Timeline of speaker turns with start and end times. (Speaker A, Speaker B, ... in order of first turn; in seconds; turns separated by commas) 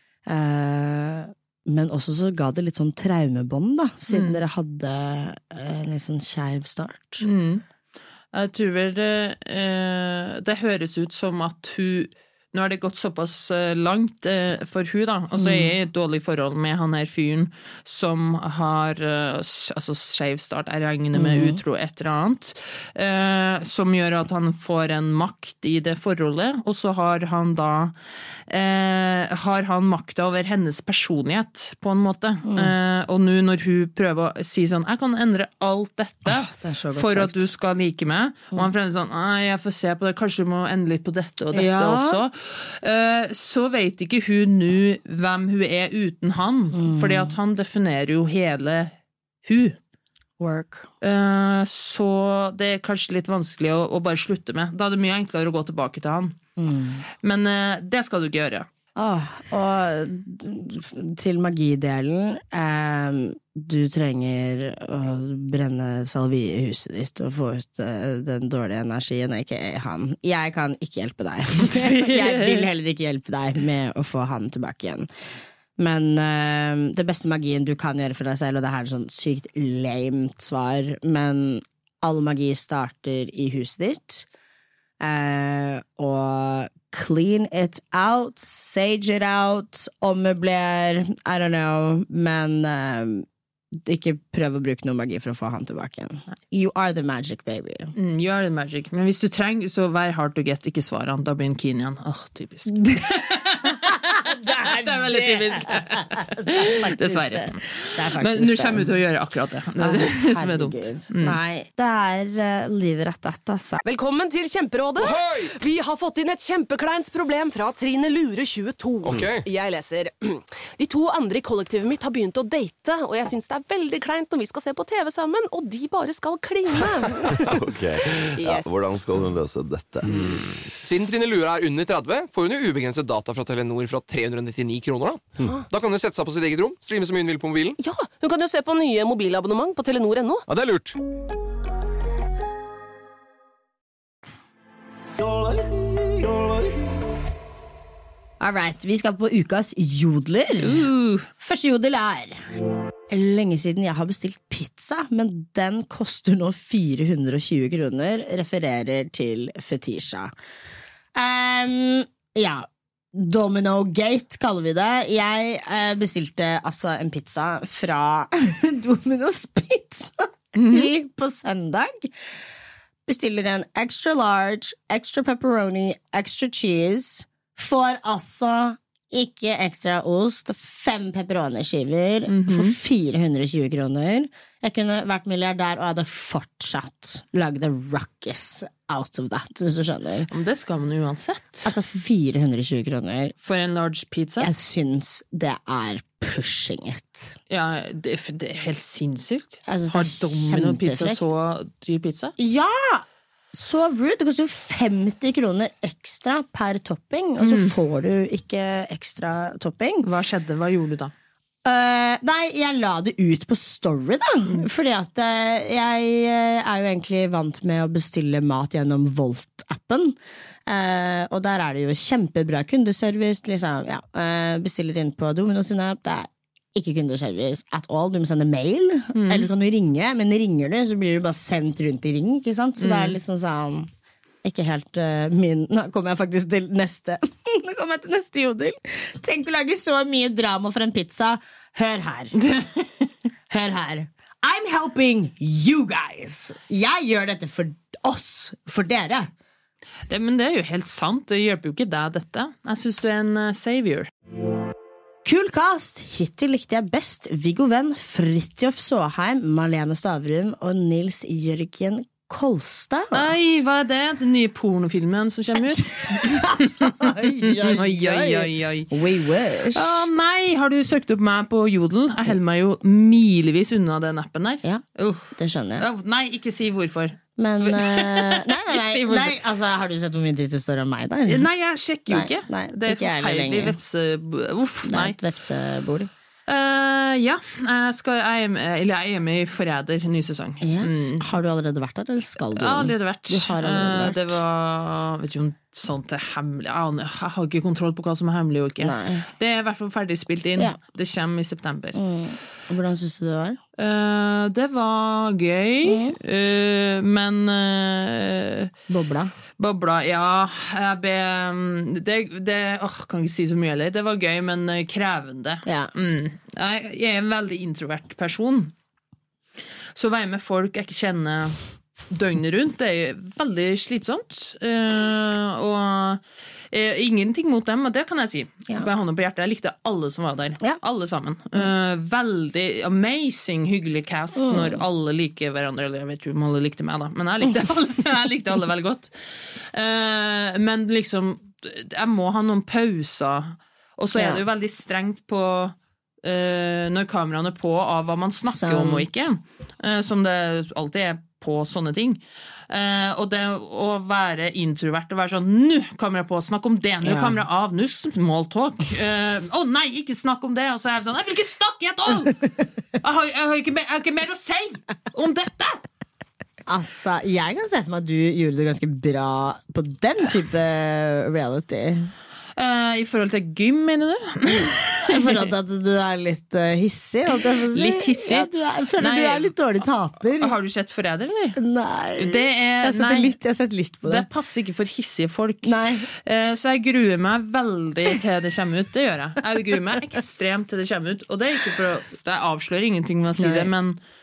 Speaker A: 0.3-7.2, Speaker B: 4.1-4.4, Speaker B: 7.2-7.6, Speaker B: 8.3-27.9, Speaker A: 15.4-15.7, Speaker A: 21.1-21.6, Speaker B: 28.5-48.9, Speaker A: 32.5-32.7, Speaker A: 36.3-37.5, Speaker A: 41.5-42.2, Speaker A: 46.7-47.4, Speaker B: 49.5-49.8, Speaker A: 50.4-50.9, Speaker B: 51.0-56.4, Speaker A: 56.6-57.0, Speaker B: 57.2-58.7, Speaker A: 59.0-75.1, Speaker B: 71.6-72.7, Speaker A: 75.8-84.3, Speaker A: 85.0-97.9, Speaker B: 98.0-111.4, Speaker A: 103.7-108.9, Speaker A: 109.8-113.8, Speaker C: 113.8-127.5, Speaker D: 115.0-115.5, Speaker D: 119.0-119.5, Speaker E: 127.4-130.6, Speaker C: 128.4-128.9, Speaker D: 130.8-137.8, Speaker C: 137.8-140.5, Speaker D: 140.5-141.0, Speaker A: 148.4-152.4, Speaker B: 150.6-151.3, Speaker A: 153.1-160.3, Speaker A: 161.2-172.1, Speaker B: 170.6-170.9, Speaker A: 173.1-190.3, Speaker B: 182.3-182.8, Speaker B: 190.3-191.7, Speaker A: 191.7-193.3, Speaker B: 193.4-194.5, Speaker A: 194.4-197.4, Speaker B: 197.5-202.3, Speaker A: 199.7-201.3, Speaker A: 202.4-210.1, Speaker B: 207.4-207.7, Speaker B: 210.0-211.1, Speaker A: 211.7-233.9, Speaker B: 229.1-229.5, Speaker B: 232.8-233.2, Speaker A: 234.4-242.3, Speaker B: 242.5-242.8, Speaker A: 243.5-249.3, Speaker B: 250.1-254.1, Speaker A: 255.2-263.4, Speaker B: 263.1-268.9, Speaker A: 266.2-270.1, Speaker B: 269.7-279.4, Speaker A: 274.6-275.9, Speaker A: 277.4-281.5, Speaker B: 281.3-285.2, Speaker A: 282.1-283.8, Speaker A: 284.9-286.1, Speaker B: 286.5-291.3, Speaker A: 290.6-294.4, Speaker B: 292.6-302.0, Speaker A: 298.8-299.3, Speaker A: 301.9-303.6, Speaker B: 303.8-308.7, Speaker A: 305.9-306.2, Speaker A: 308.9-309.3, Speaker B: 309.6-318.7, Speaker A: 315.7-315.9, Speaker B: 320.0-365.9, Speaker A: 334.4-334.8, Speaker A: 344.1-344.4, Speaker A: 348.4-349.3, Speaker A: 357.0-357.4, Speaker A: 366.7-372.1, Speaker B: 372.6-375.5, Speaker A: 375.1-380.5, Speaker B: 377.7-379.6, Speaker B: 380.4-381.6, Speaker A: 381.6-384.3, Speaker B: 382.2-383.3, Speaker B: 384.1-394.0, Speaker A: 385.6-386.1, Speaker A: 393.4-393.7